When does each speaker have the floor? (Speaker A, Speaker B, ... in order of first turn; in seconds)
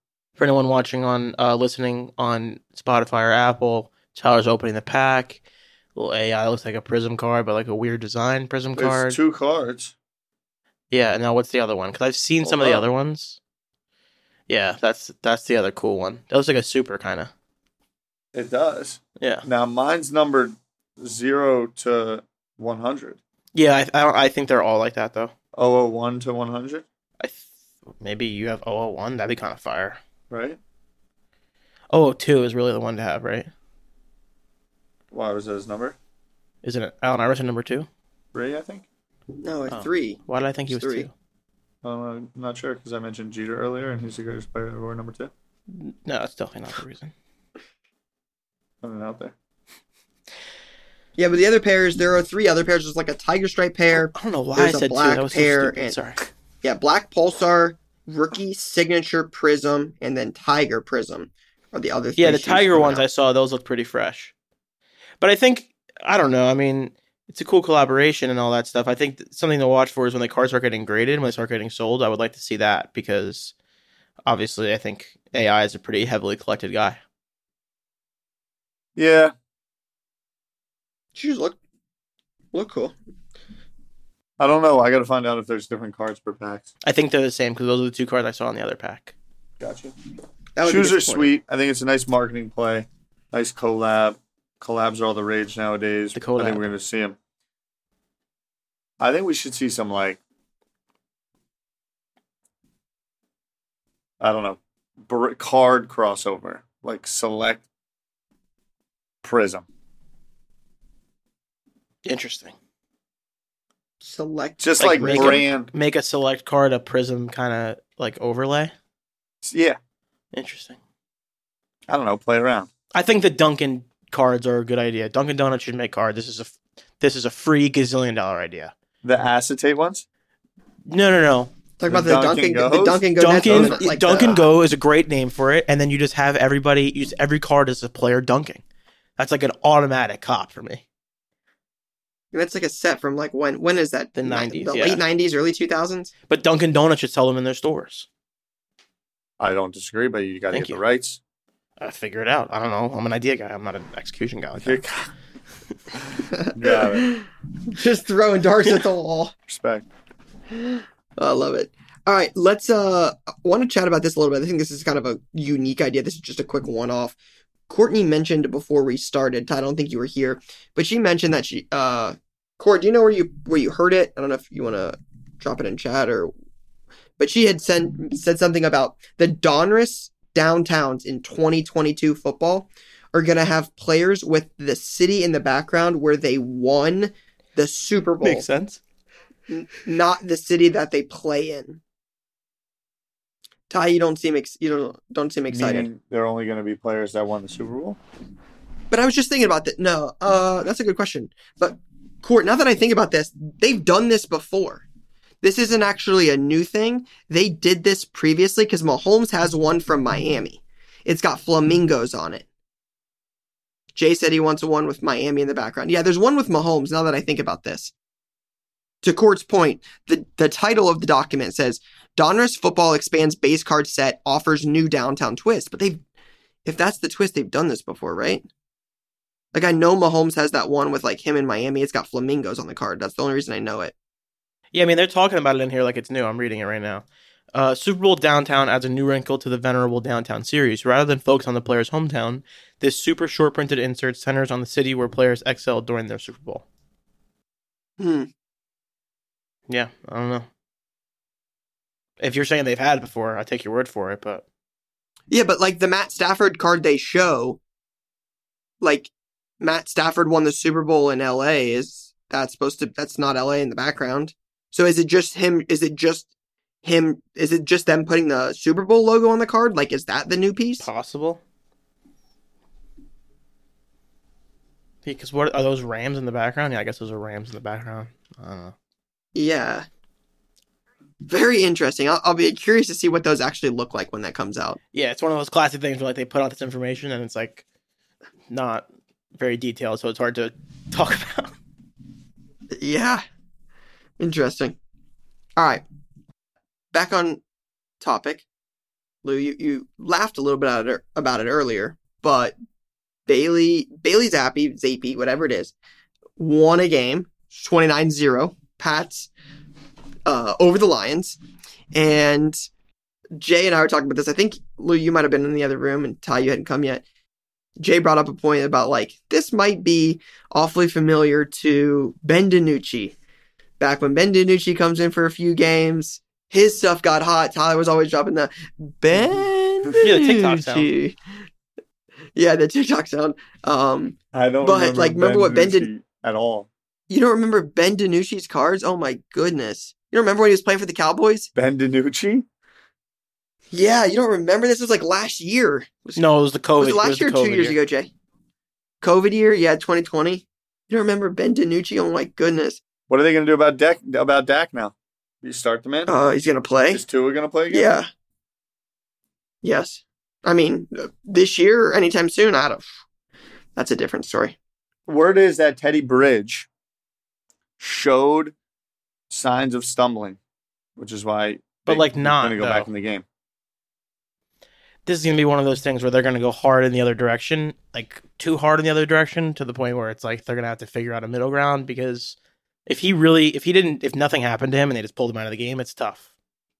Speaker A: 0.4-5.4, 5.9-9.2, 10.9-13.4, 14.5-17.3, 19.2-19.4, 23.5-25.3, 27.2-27.5, 28.0-30.0, 31.9-33.5, 36.6-37.9, 39.7-41.1, 45.7-47.1, 54.0-56.2, 62.2-64.3, 65.2-73.5, 74.2-77.0, 86.8-89.1, 96.1-96.6, 112.0-112.5, 114.8-118.7, 120.3-120.8, 122.9-128.7, 130.9-131.5, 133.2-138.6, 139.2-140.8, 144.2-145.0, 146.3-148.1, 150.5-150.8, 151.8-154.8, 188.2-188.8, 234.7-246.6, 249.7-250.5, 252.2-254.4, 270.8-271.4, 275.0-278.7, 284.9-287.6, 288.5-288.9, 289.4-291.5, 330.0-330.9, 346.1-347.8, 371.9-372.9, 375.1-386.3
Speaker B: 8.8-9.9, 12.4-12.8, 18.3-23.2, 25.5-26.8, 30.3-30.6, 35.1-36.0, 38.3-38.9, 41.8-45.3, 48.8-49.3, 79.0-79.3, 84.4-86.7, 89.6-89.9, 90.6-97.2, 99.0-100.2, 104.2-107.6, 109.2-109.7, 114.6-115.7, 119.4-119.8, 121.9-122.7, 129.0-130.0, 131.9-133.8, 149.4-151.2, 154.6-155.1, 156.5-157.1, 159.5-159.8, 195.5-198.0, 334.3-336.7, 341.5-342.4, 353.1-356.1, 356.9-357.9, 365.1-366.7, 367.8-368.5, 369.3-370.4, 371.0-373.2
Speaker C: 39.4-41.1, 51.2-56.0, 56.6-63.0, 81.2-81.6, 82.5-82.9, 90.5-91.3, 114.0-115.5, 131.8-134.5, 142.3-146.1, 156.3-159.3, 160.5-167.2, 167.7-176.3, 177.2-188.5, 189.5-191.8, 193.7-195.9, 198.9-204.8, 205.4-212.4, 213.9-217.9, 219.0-226.0, 226.6-228.5, 229.5-233.9, 248.0-248.3, 255.3-257.6, 258.8-266.3, 266.8-270.9, 279.3-279.9, 281.3-284.8, 292.7-293.2, 294.2-294.8, 295.6-295.8, 296.9-297.4, 298.0-298.4, 299.2-302.5, 303.3-305.7, 306.4-309.3, 310.2-311.4, 311.9-312.6, 313.3-317.0, 317.8-323.1, 323.8-331.1, 332.3-335.9, 337.1-341.5, 343.7-346.2, 346.8-348.1, 349.0-352.8, 356.1-357.0, 357.7-358.1, 359.6-362.9, 363.8-364.6